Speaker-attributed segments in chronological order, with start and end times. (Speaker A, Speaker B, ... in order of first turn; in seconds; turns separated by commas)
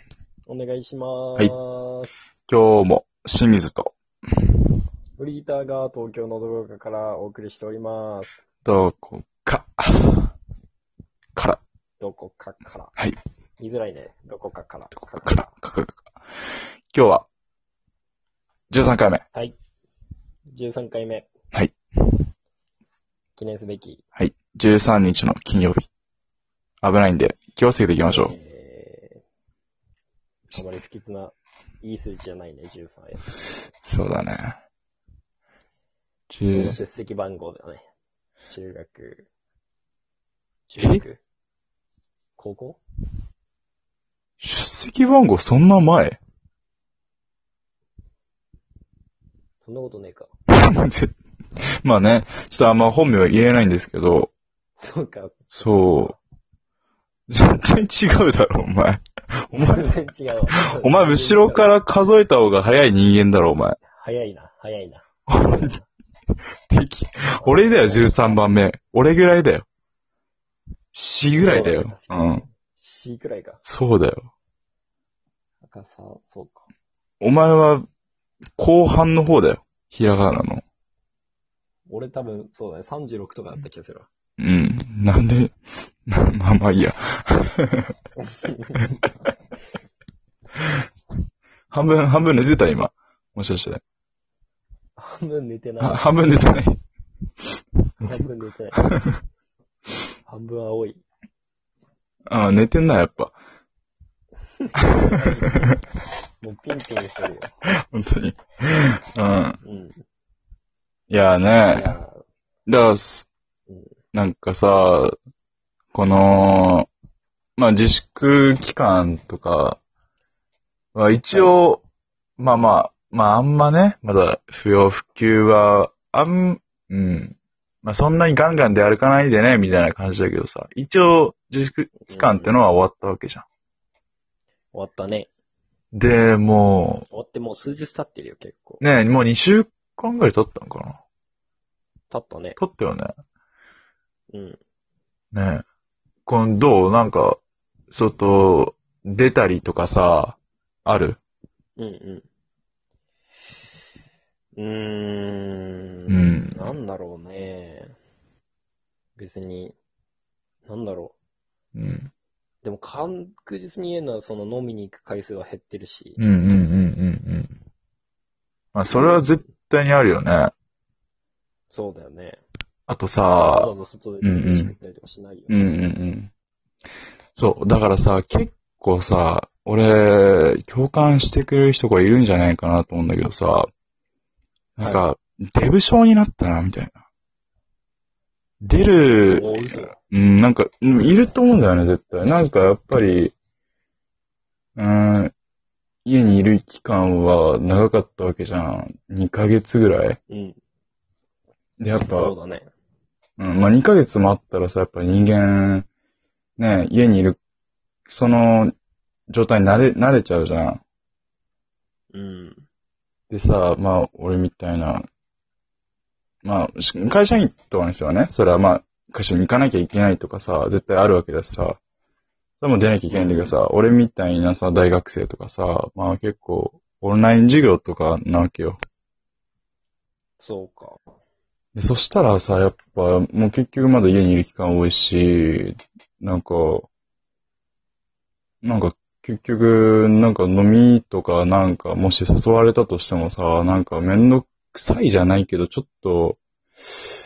Speaker A: 0.5-2.1, Speaker B: 2.5-3.9, Speaker A: 5.2-8.4, Speaker B: 8.6-10.3, Speaker B: 11.3-11.6, Speaker A: 12.0-12.9, Speaker A: 13.6-15.5, Speaker B: 14.9-16.1, Speaker B: 16.9-17.2, Speaker B: 18.7-19.2, Speaker A: 20.5-21.3, Speaker A: 23.4-24.0, Speaker B: 24.2-25.9, Speaker B: 26.8-28.3, Speaker A: 28.1-29.2, Speaker A: 30.5-33.2, Speaker B: 33.8-34.6, Speaker B: 36.3-36.8, Speaker A: 36.5-37.8, Speaker A: 38.5-39.3, Speaker A: 40.7-41.2, Speaker A: 42.4-42.8, Speaker B: 44.4-46.2, Speaker A: 49.6-50.3, Speaker B: 50.5-51.1, Speaker B: 51.8-54.3, Speaker A: 54.8-56.2, Speaker B: 55.5-56.1, Speaker B: 57.3-59.9, Speaker A: 59.5-61.8, Speaker B: 60.5-63.8, Speaker A: 63.9-65.9, Speaker B: 65.3-65.7, Speaker B: 66.7-69.7, Speaker A: 67.4-68.4, Speaker B: 70.9-72.4, Speaker A: 71.3-73.6, Speaker B: 73.7-74.3, Speaker A: 75.6-76.7, Speaker B: 77.2-77.9, Speaker B: 78.6-80.6, Speaker A: 81.9-84.1, Speaker B: 84.4-87.9, Speaker A: 88.2-89.1, Speaker B: 91.7-93.8, Speaker A: 95.0-96.1, Speaker B: 95.8-96.8, Speaker A: 98.0-98.8, Speaker A: 100.3-101.0, Speaker B: 102.3-103.4, Speaker A: 104.6-105.8, Speaker A: 106.4-107.7, Speaker B: 107.9-109.6, Speaker A: 109.6-110.0, Speaker B: 111.1-112.0, Speaker A: 111.7-112.2, Speaker B: 112.7-113.3, Speaker A: 113.7-113.9, Speaker B: 114.1-115.2, Speaker B: 115.9-116.9, Speaker B: 117.6-119.8, Speaker B: 121.0-121.8, Speaker B: 122.4-133.4, Speaker A: 132.0-132.5, Speaker A: 134.7-135.3, Speaker B: 135.9-137.0, Speaker A: 137.1-138.8, Speaker B: 138.8-141.0, Speaker A: 142.1-142.6, Speaker B: 142.6-143.1, Speaker A: 144.3-144.6, Speaker B: 145.3-145.6, Speaker B: 146.2-147.4, Speaker B: 147.9-151.2, Speaker A: 151.8-152.3, Speaker A: 154.6-157.9, Speaker B: 156.1-156.7, Speaker A: 159.2-159.8, Speaker A: 160.7-161.1, Speaker B: 161.8-162.1, Speaker A: 162.6-166.2, Speaker B: 166.2-167.6, Speaker B: 168.7-170.5, Speaker A: 168.9-169.4, Speaker A: 171.7-172.4, Speaker B: 172.9-173.7, Speaker A: 173.4-175.7, Speaker B: 174.2-174.7, Speaker B: 175.5-176.3, Speaker B: 177.3-183.7, Speaker B: 184.8-187.0, Speaker B: 188.6-193.3, Speaker A: 189.3-189.9, Speaker B: 194.8-195.3, Speaker B: 196.0-200.2, Speaker A: 200.3-200.6, Speaker B: 201.8-202.3, Speaker A: 202.0-202.7, Speaker B: 203.4-205.9, Speaker B: 206.6-207.4, Speaker B: 208.1-208.7, Speaker B: 209.3-210.8, Speaker A: 212.1-212.7, Speaker B: 213.3-215.1, Speaker B: 216.4-221.8, Speaker B: 222.6-228.8, Speaker A: 223.1-223.5, Speaker A: 230.4-231.0, Speaker B: 231.8-236.9, Speaker B: 238.6-246.4